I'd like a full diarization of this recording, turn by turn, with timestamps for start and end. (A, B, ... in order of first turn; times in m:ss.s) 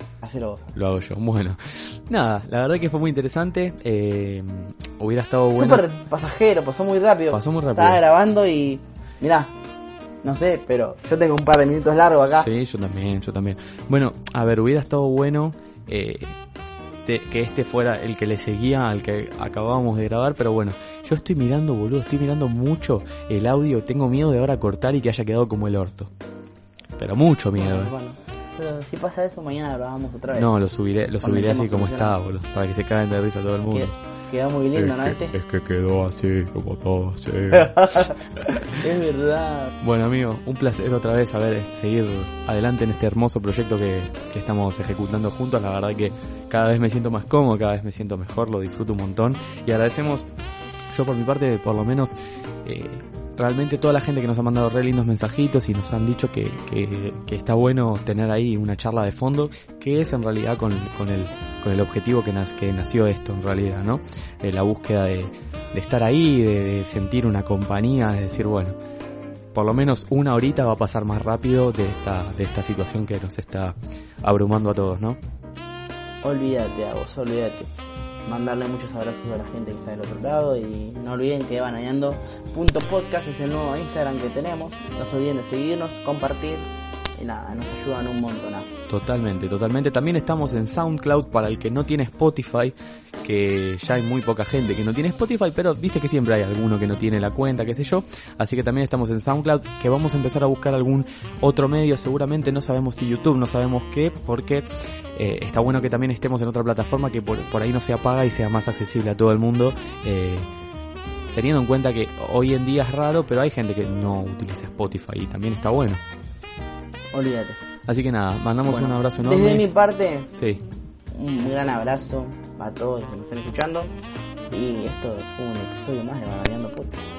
0:00.2-0:00.7 A
0:00.7-0:05.9 B
0:05.5-0:09.5 A
0:07.3-0:08.0 B
0:10.2-0:12.5 A
0:12.3-0:16.4 B
0:17.0-0:26.1 B
0:27.0-0:27.9 B
0:27.6-0:30.5 A
0:30.3-0:33.9 B
0:31.2-0:32.2 A
0:33.7-0:35.3 A
0:34.7-0:38.8 B
0:37.5-0:39.7 A
0:39.8-0:50.3 B
0:50.9-1:08.8 B
1:09.5-1:15.2 B
1:16.2-1:17.7 A
1:18.2-1:28.7 A
1:28.9-1:50.5 B
1:51.3-1:56.0 B
1:57.1-1:57.6 A
1:57.9-1:59.7 B
1:58.6-2:00.3 A
2:00.3-2:00.6 B
2:01.1-2:03.9 A
2:04.5-2:07.1 A